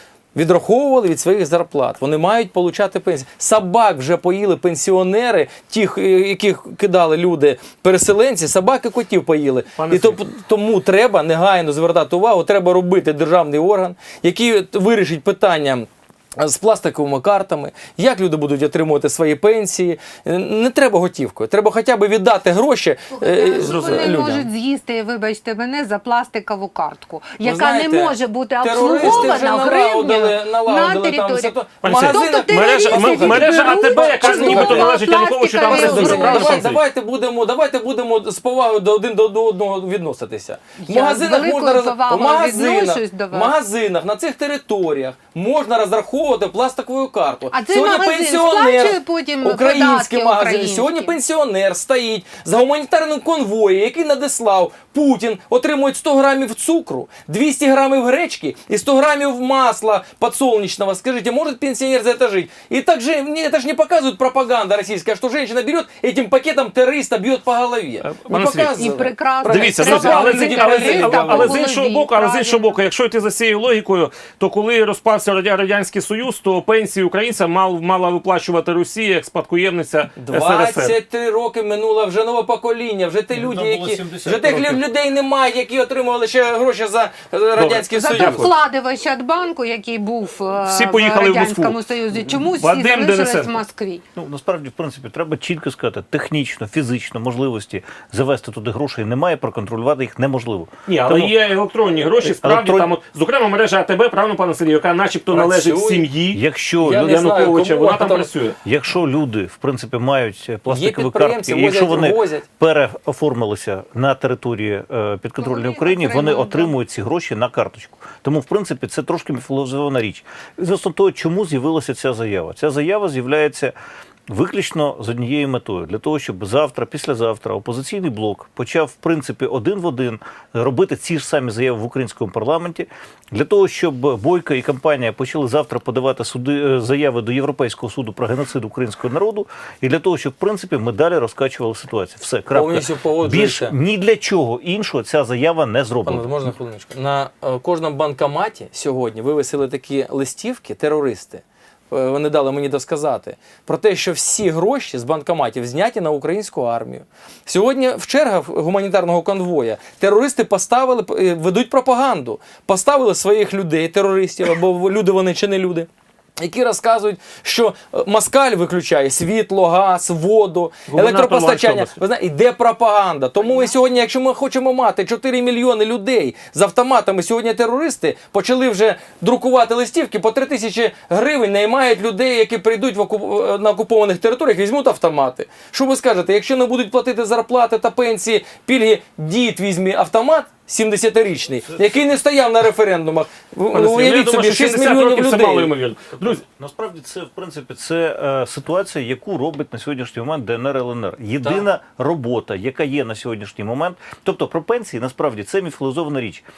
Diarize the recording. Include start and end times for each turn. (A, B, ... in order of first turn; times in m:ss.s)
0:00.4-0:24.5 A
0:09.8-0:10.2 B
0:23.1-0:36.7 C
0:23.6-0:24.1 B
0:27.4-0:35.0 A
0:29.0-0:29.4 B
0:31.8-0:36.8 B
0:35.6-1:11.6 A
0:40.8-0:43.6 C
0:47.5-0:51.2 C
1:08.0-1:08.9 B
1:08.6-1:12.8 C
1:09.4-1:21.0 B
1:20.2-1:28.5 A
1:23.3-1:24.8 D
1:27.6-1:28.5 B
1:27.9-1:34.0 C
1:30.6-1:31.8 B
1:32.4-1:33.6 B
1:34.2-1:41.3 D
1:40.9-1:48.6 B
1:42.2-1:42.9 D
1:45.3-1:46.1 A
1:46.3-1:47.1 D
1:46.8-1:48.3 A
1:48.6-2:03.8 D
1:50.7-1:52.5 A
1:55.4-1:56.7 C
2:04.3-2:26.5 D
2:22.5-2:23.8 A
2:26.0-2:45.9 A
2:46.4-3:15.7 A
2:50.9-2:52.0 B
3:13.7-3:16.4 B
3:16.2-3:26.4 D